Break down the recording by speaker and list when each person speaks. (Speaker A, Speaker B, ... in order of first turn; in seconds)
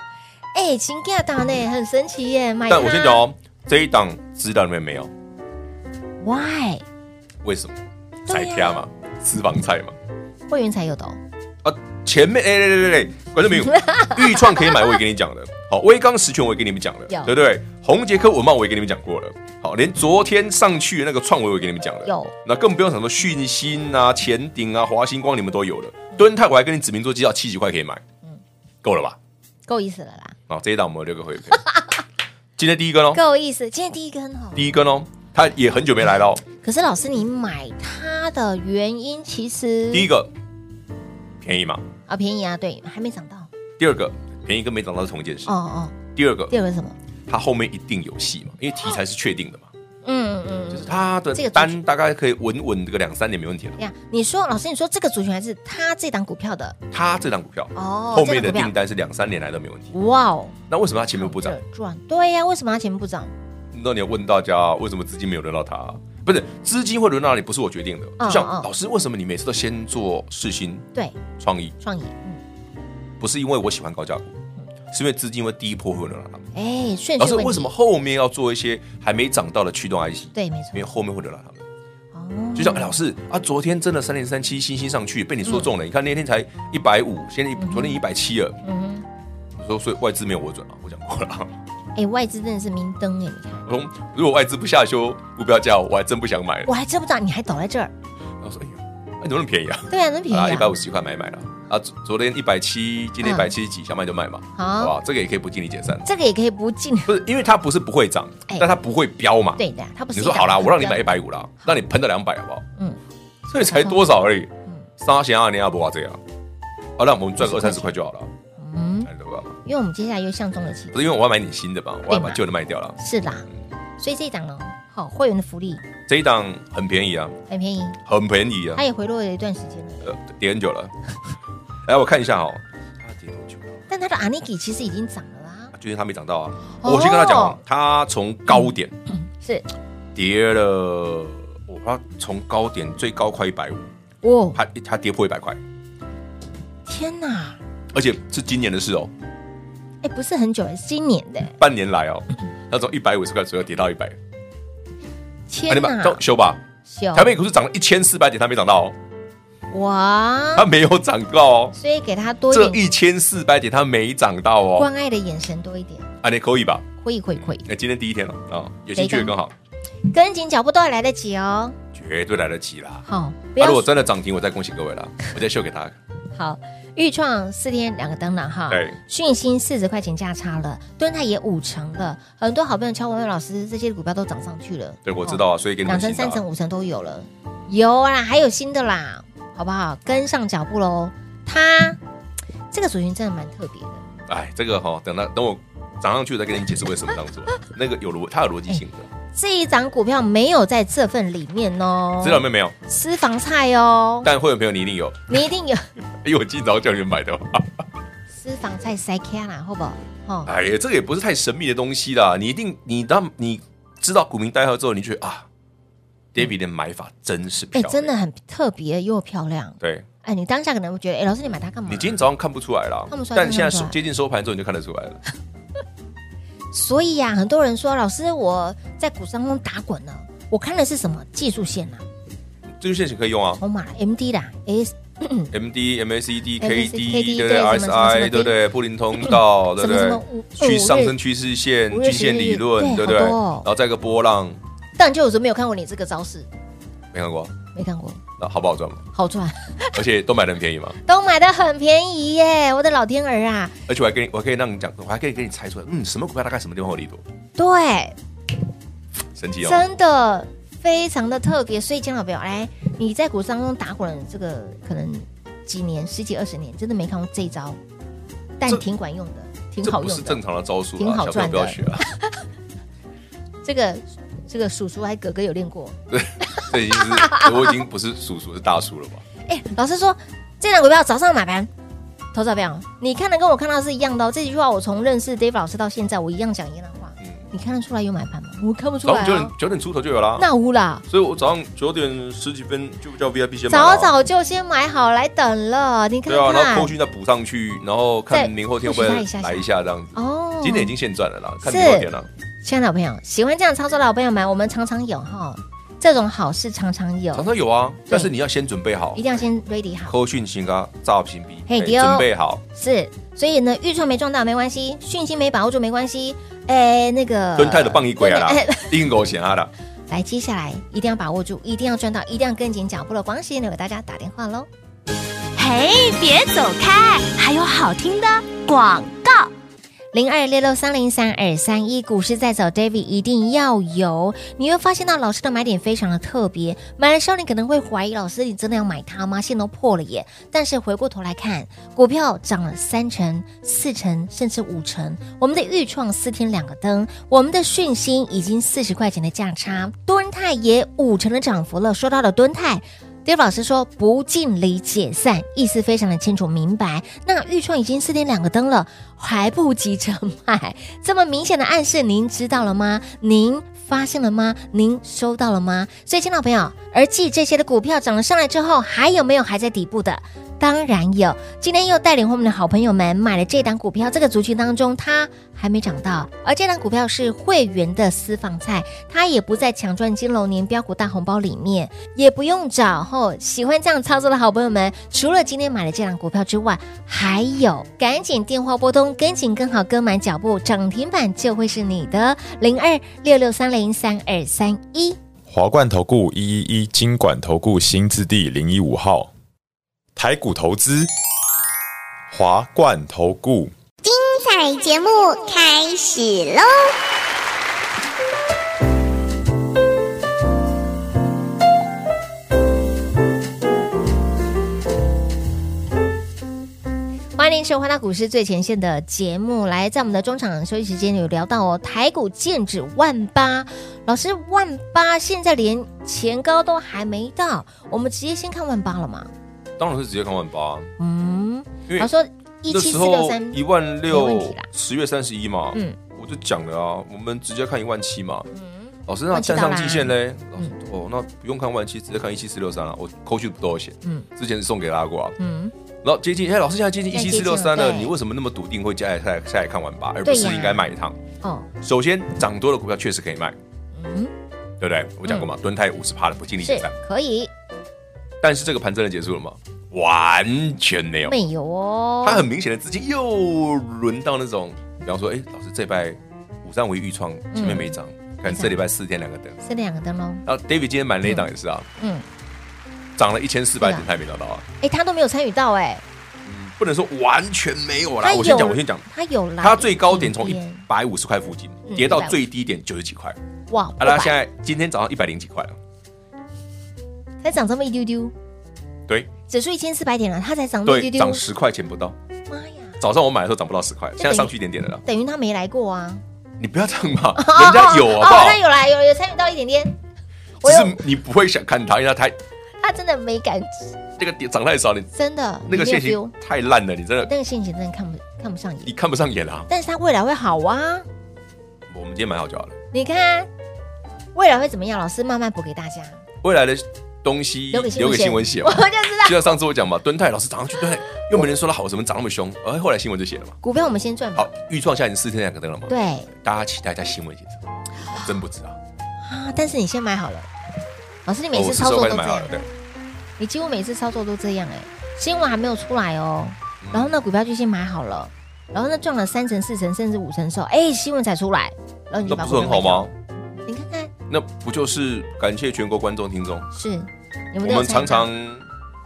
Speaker A: 0.5-3.2, 6.2-6.8, 8.3-8.8, 10.5-11.2, 13.7-14.9, 17.1-17.4, 22.1-22.3, 29.7-30.4, 31.5-31.9, 33.1-34.7, 36.6-40.1, 42.1-43.5, 45.5-46.0, 46.5-47.0, 50.0-51.8, 53.8-56.8, 57.8-58.7, 59.9-60.6, 61.1-63.3, 68.2-68.7, 71.8-72.4, 76.5-77.7, 80.3-80.9, 82.1-83.0, 87.6-88.0, 88.6-89.1, 92.0-93.7, 96.7-97.9, 99.9-100.8, 103.2-103.5, 104.6-105.0, 106.0-107.2, 109.6-111.1, 113.6-114.0, 117.4-117.9, 118.6-119.1, 119.7-121.0, 122.1-122.4, 123.0-125.8, 127.5-128.0, 128.8-130.2, 133.9-135.7, 136.8-137.6, 139.3-139.7, 144.2-144.6, 146.9-147.6, 150.0-151.5, 155.5-156.2, 156.9-157.4, 159.7-160.7, 161.8-162.8, 164.8-166.1, 167.0-167.7, 168.9-169.3, 170.1-171.8, 173.1-173.9, 176.3-192.0, 192.7-194.0, 199.3-204.3, 205.3-205.9, 208.3-210.5, 217.7-222.2, 223.1-224.0, 226.7-232.1, 233.6-235.5, 236.6-238.6, 239.2-241.2, 241.9-243.7, 245.0-246.5, 247.8-248.2, 249.1-250.0, 251.0-253.8, 257.6-258.2, 259.6-267.8, 268.6-270.4, 271.0-272.4, 273.6-277.8, 279.5-281.7, 282.3-289.5, 290.4-291.1, 293.7-296.9, 298.3-300.9, 301.6-302.1, 302.6-307.5, 309.1-310.2, 311.7-319.0, 320.1-324.7, 330.1-395.2, 417.4-429.3, 431.0-434.7, 438.5-440.8, 445.4-445.7, 447.1-448.1, 450.2-450.9, 451.4-451.7, 453.9-454.3, 456.6-457.5, 461.3-462.5, 467.5-468.8, 469.6-470.4, 471.2-472.2, 473.8-474.1, 474.8-476.0, 478.2-480.8, 481.9-482.4, 483.7-484.4, 487.4-488.3, 489.5-491.4, 492.5-493.0, 494.2-496.2, 497.4-500.0, 500.6-501.0, 502.8-504.0, 505.1-506.3, 507.2-508.9, 509.7-511.1, 512.9-513.5, 514.4-516.2, 517.7-519.5, 523.6-524.5, 525.9-526.3, 529.2-530.5, 531.3-532.6, 533.4-543.1, 543.7-544.1, 546.7-548.3
Speaker B: 2.7-5.1, 7.4-10.0, 11.6-28.0, 28.8-29.2, 30.5-31.6, 32.6-33.2, 34.5-36.4, 39.9-40.3, 41.4-41.9, 43.8-45.5, 46.1-46.6, 47.3-49.7, 50.7-53.8, 56.9-59.9, 60.7-61.6, 63.7-71.8, 73.2-74.4, 74.9-76.5, 77.2-81.7, 82.5-88.6, 89.6-91.6, 93.7-96.7, 98.4-106.1, 107.1-112.7, 113.5-116.2, 117.0-118.3, 119.1-119.5, 120.9-123.0, 126.1-127.4, 128.1-128.8, 130.0-130.9, 131.8-133.8, 135.7-139.0, 140.2-143.9, 144.6-145.6, 147.9-149.1, 151.6-154.2, 155.7-156.6, 157.1-159.0, 160.6-161.8, 162.5-164.9, 166.2-166.9, 167.4-169.5, 171.9-173.1, 173.6-176.0, 178.7-179.0, 185.1-186.4, 194.3-199.1, 202.2-202.8, 204.2-205.4, 206.2-207.9, 210.4-215.5, 216.3-218.1, 219.8-220.1, 221.9-225.2, 232.8-233.6, 235.5-244.6, 247.1-247.5, 248.4-249.1, 249.9-251.0, 253.9-257.2, 259.4-259.9, 269.8-272.1, 276.1-279.2, 289.0-290.5, 291.1-294.1, 296.3-302.3, 307.3-309.3, 310.1-312.6, 317.6-319.7, 429.8-430.9, 432.7-438.5, 439.1-445.4, 446.0-451.2, 451.8-453.6, 454.8-456.9, 458.4-461.4, 462.2-469.6, 470.5-471.9, 473.2-474.6, 476.5-479.1, 479.6-483.4, 484.0-485.8, 490.9-492.2, 493.0-495.0, 496.6-498.6, 500.6-502.4, 504.2-505.1, 505.7-507.3, 508.9-509.7, 511.9-512.8, 516.4-523.6, 524.4-528.8, 531.5-532.7, 536.8-537.2, 542.2-543.1, 544.3-546.7, 547.6-548.6
Speaker C: 325.6-329.5
Speaker D: 395.5-399.3, 400.2-401.1, 402.3-403.7
Speaker E: 404.0-406.9